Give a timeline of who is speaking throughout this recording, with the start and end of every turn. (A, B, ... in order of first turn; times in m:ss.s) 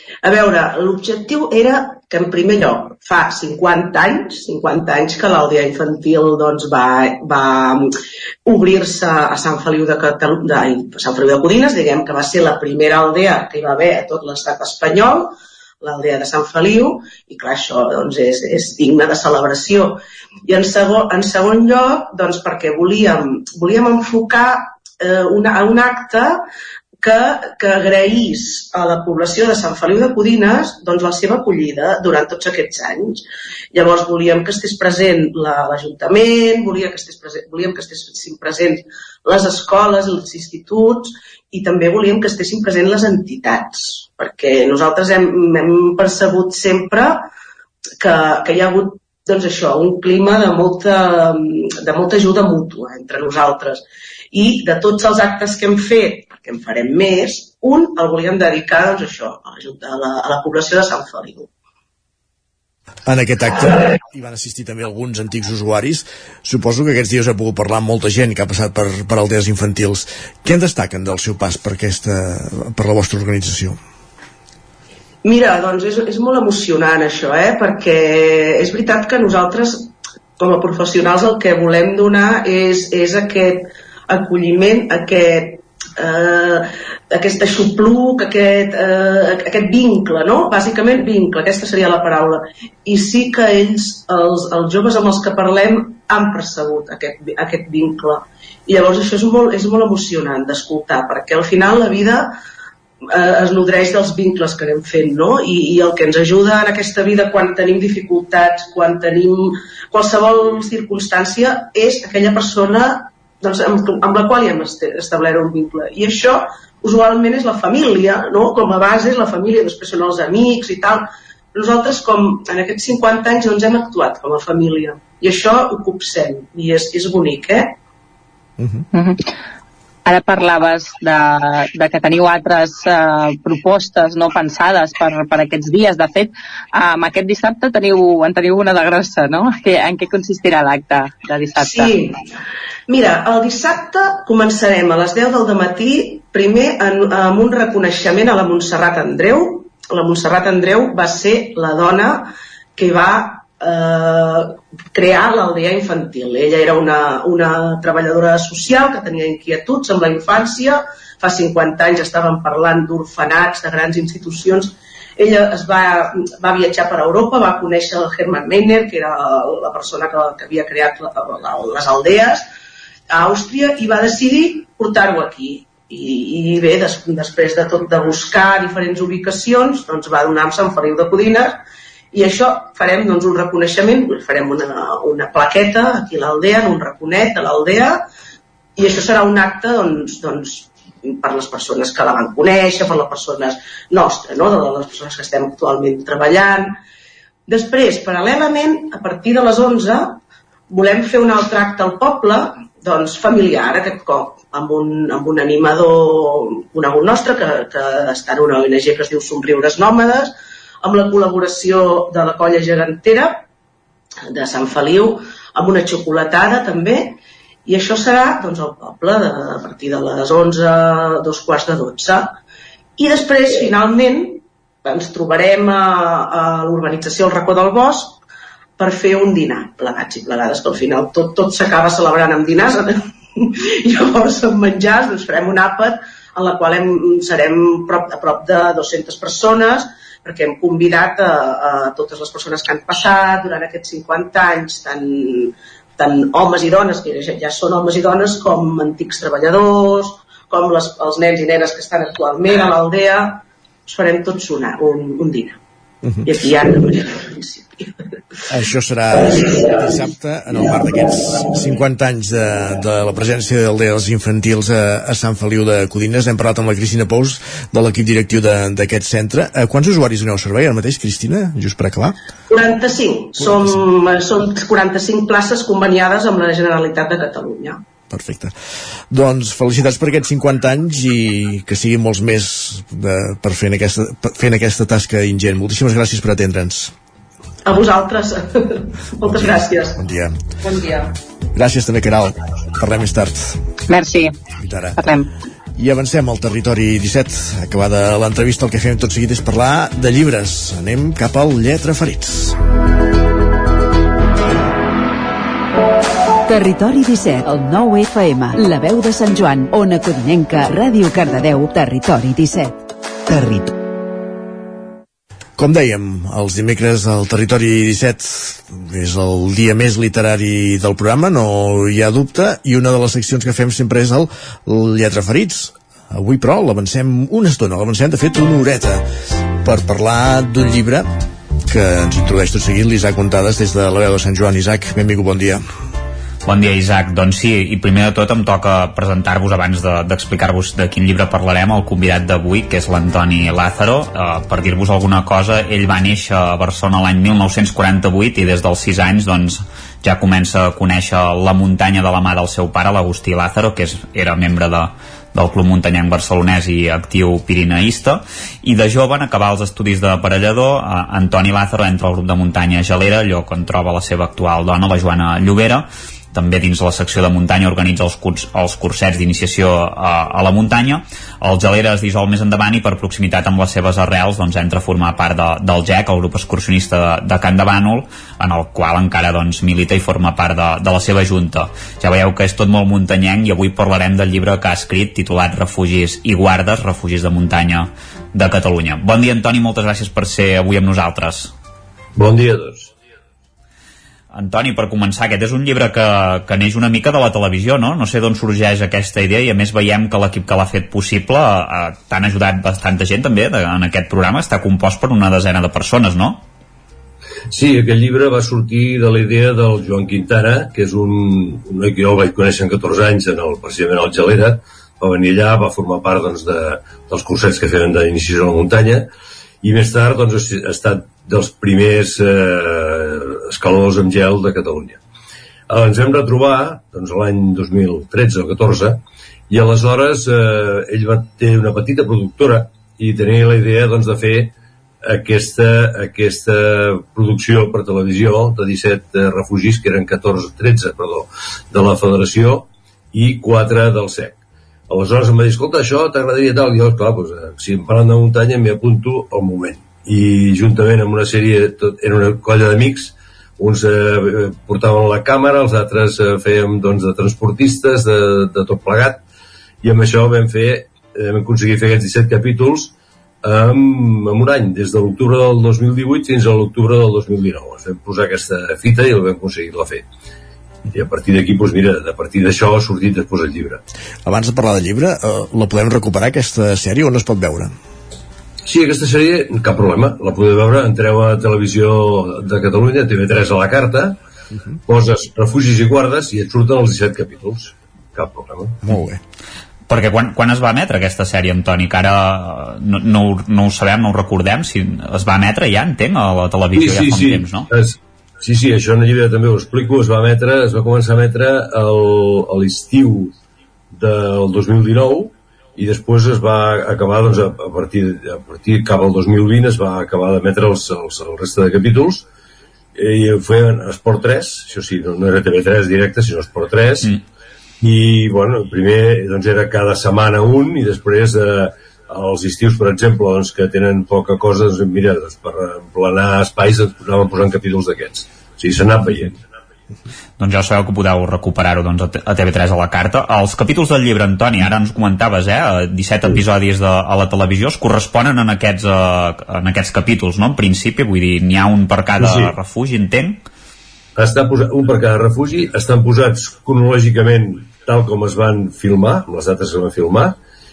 0:00.2-0:07.9 A
0:08.5-0:26.4 A
0:27.0-0:47.3 A
0:48.0-1:01.5 A
1:03.1-1:13.8 B
1:15.2-1:42.3 A
1:43.1-2:07.8 A
2:08.9-2:09.2 C
2:10.0-2:22.0 C
2:21.6-2:22.2 A
2:22.9-2:52.5 A
2:53.1-3:01.6 A
3:02.1-3:08.1 A
3:08.8-3:16.8 A
3:17.5-3:20.2 A
3:20.7-3:33.4 A
3:34.3-3:42.4 A
3:43.0-3:48.2 A
3:48.8-4:15.6 A
4:16.0-4:16.3 B
4:16.2-4:17.9 A
4:18.5-4:32.2 B
4:32.5-4:37.8 A
4:33.4-4:33.7 B
4:38.1-4:38.5 B
4:39.1-4:46.9 B
4:47.7-4:50.0 A
4:49.2-4:50.3 B
4:50.7-4:51.0 C
4:51.6-4:53.6 B
4:53.9-4:54.4 C
4:54.6-4:55.0 B
4:55.0-4:55.3 C
4:55.8-5:02.6 B
5:06.5-5:13.7 D
5:15.6-5:29.0 B
5:29.6-5:31.1 B
5:31.7-5:35.6 B
5:36.5-6:31.5 E
6:32.2-6:32.9 F
6:34.3-6:46.4 E
6:47.5-6:59.1 F
6:59.6-7:05.0 F
7:05.7-7:39.2 F
7:39.8-7:50.1 F
7:50.9-7:53.8 F
7:54.3-7:57.7 B
7:58.6-8:04.2 F
8:04.9-8:08.8 F
8:08.8-8:09.2 B
8:09.9-8:17.7 E
8:16.7-8:23.3 F
8:23.9-8:32.2 F
8:33.0-8:37.2 F
8:37.8-8:49.4 F
8:50.4-9:03.4 E
9:02.2-9:02.5 F
9:04.2-9:10.4 F